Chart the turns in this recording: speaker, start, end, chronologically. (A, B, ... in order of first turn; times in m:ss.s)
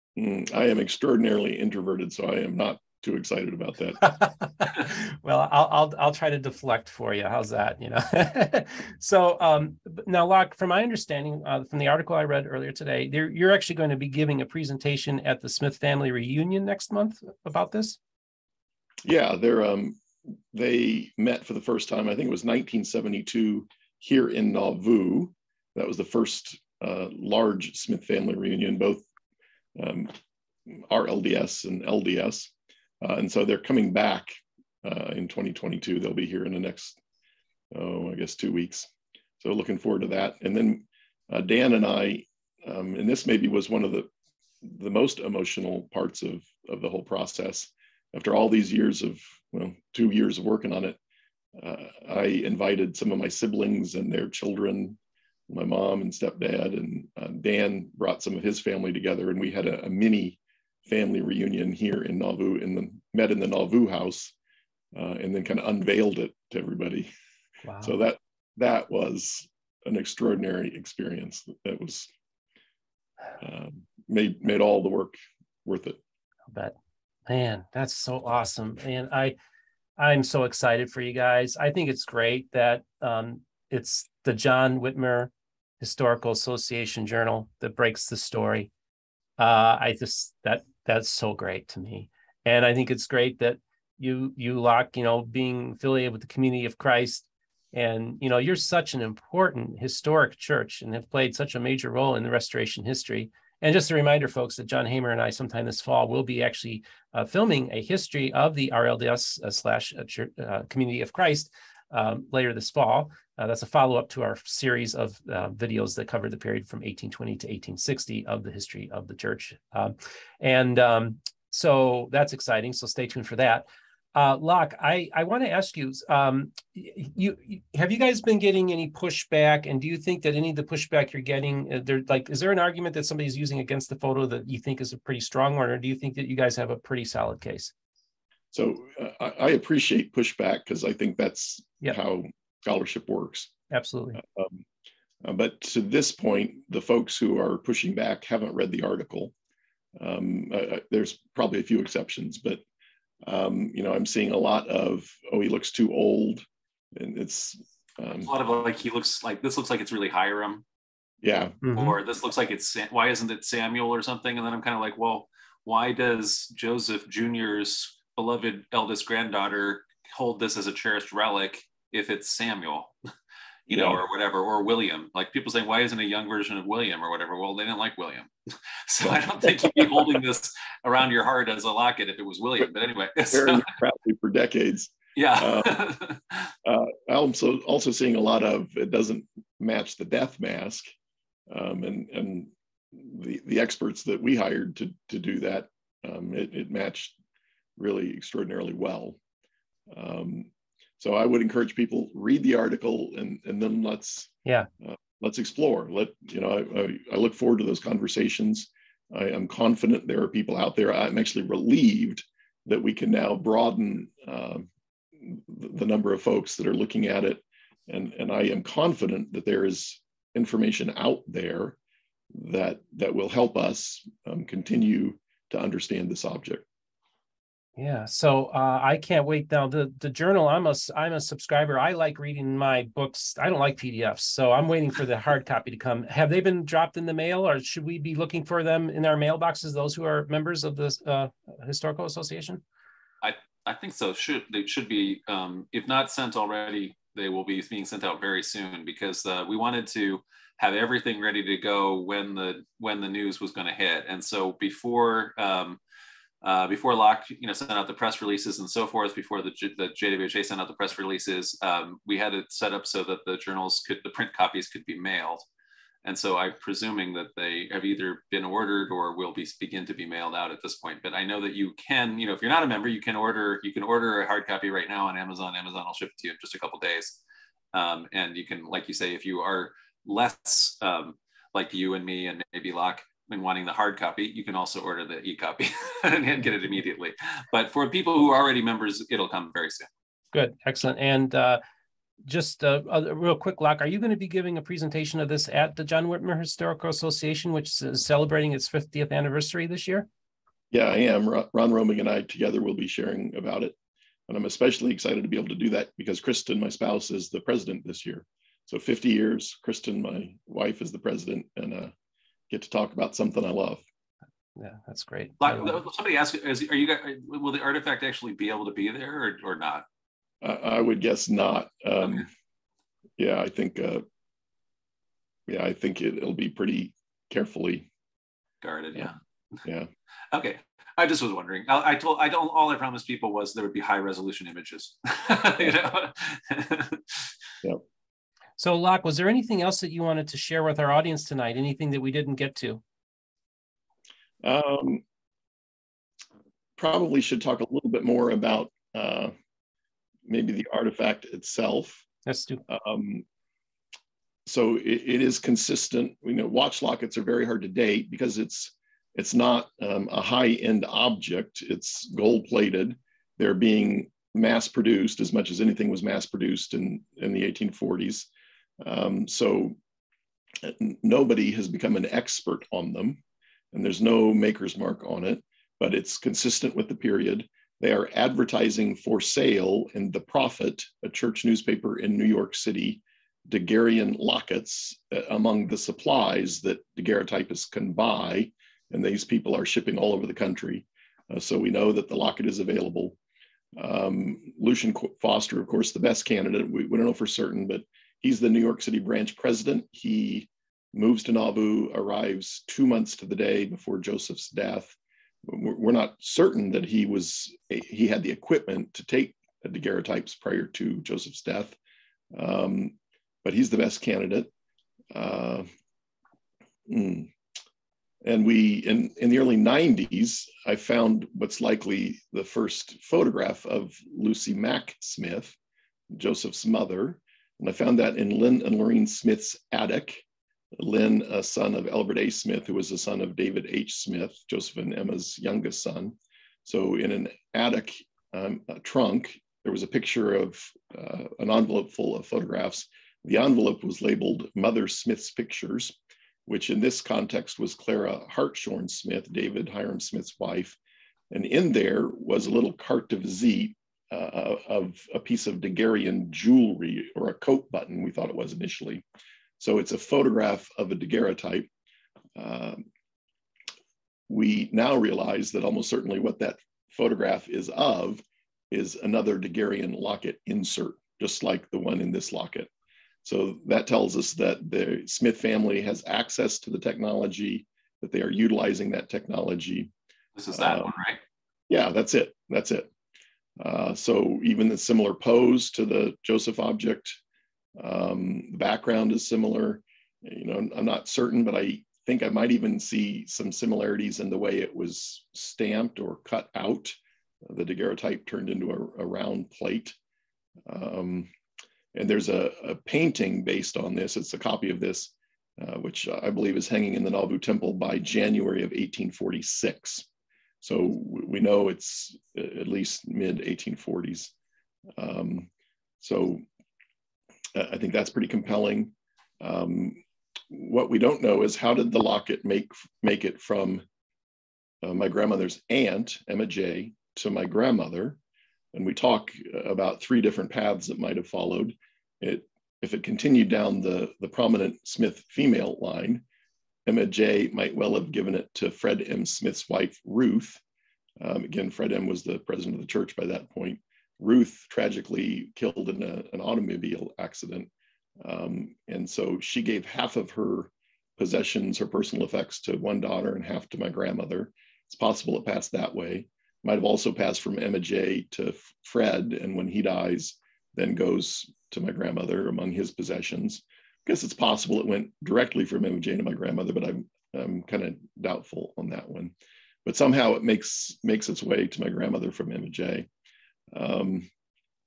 0:00.2-0:04.0 A
0:04.0-0:18.0 B
0:19.0-0:29.0 A
0:29.8-0:30.1 A
0:30.7-0:32.5 A
0:33.0-0:34.3 A
0:34.8-0:37.0 A
0:37.7-0:38.9 A
0:39.4-0:44.1 A
0:44.6-0:51.0 A
0:51.6-0:55.0 A
0:55.5-1:04.3 A
1:04.9-1:07.1 A
1:07.6-1:08.0 B
1:07.8-1:12.1 A
1:13.4-1:16.0 A
1:17.3-1:19.4 B
1:20.0-1:28.7 B
1:29.4-2:17.7 B
2:18.5-2:23.5 A
2:23.7-2:24.2 B
2:24.2-2:24.6 A
2:25.2-2:29.3 A
2:30.0-2:32.6 A
2:33.2-2:36.4 A
2:36.9-2:38.3 A
2:38.2-2:40.6 C
2:41.2-2:41.6 A
2:41.6-2:42.0 B
2:41.7-2:52.9 C
2:53.7-2:58.3 C
2:53.7-2:54.0 A
2:58.9-3:03.7 C
2:59.0-3:00.2 A
3:03.3-3:05.8 A
3:05.2-3:06.5 C
3:06.6-3:10.8 A
3:11.5-3:17.2 A
3:17.8-3:19.2 A
3:19.9-3:34.7 A
3:35.2-3:41.8 A
3:42.3-3:46.6 A
3:47.8-4:02.6 B
4:03.2-4:15.8 C
4:16.4-4:25.5 C
4:26.0-4:37.2 C
4:37.7-4:49.9 C
4:50.3-4:51.6 B
4:52.2-5:00.1 B
5:00.7-5:03.8 A
5:04.3-5:11.9 A
5:12.5-5:13.8 A
5:14.6-5:15.8 B
5:15.4-5:19.9 C
5:20.4-5:22.3 A
5:23.2-5:24.0 A
5:25.5-5:27.9 A
5:28.6-5:29.6 C
5:29.6-5:29.9 A
5:30.3-5:37.3 C
5:38.6-5:42.8 B
5:44.4-5:45.0 A
5:46.8-5:49.3 A
5:50.3-5:52.0 A
5:52.3-5:52.6 B
5:52.7-5:53.2 A
5:54.5-6:08.3 A
6:08.8-6:09.8 A
6:10.6-6:13.2 A
6:13.7-6:33.2 A
6:33.8-6:51.8 A
6:52.3-6:54.5 A
6:55.1-6:55.7 A
6:56.9-6:57.3 A
6:58.2-7:05.6 A
7:06.1-7:10.2 A
7:10.8-7:30.8 A
7:31.3-7:39.0 A
7:39.6-7:41.7 A
7:42.4-7:42.8 A
7:44.3-7:52.7 A
7:53.2-7:59.9 A
8:00.4-8:01.2 C
8:00.5-8:00.9 A
8:01.7-8:02.9 A
8:03.6-8:07.2 A
8:07.8-8:19.9 A
8:20.6-8:21.3 A
8:21.9-8:30.1 A
8:30.6-8:34.3 A
8:35.0-8:35.5 A
8:36.0-8:36.4 A
8:37.5-8:43.8 A
8:44.8-8:48.2 A
8:48.7-8:56.2 A
8:56.9-9:00.6 A
9:01.2-9:29.3 A
9:29.8-9:33.1 A
9:33.7-9:34.3 A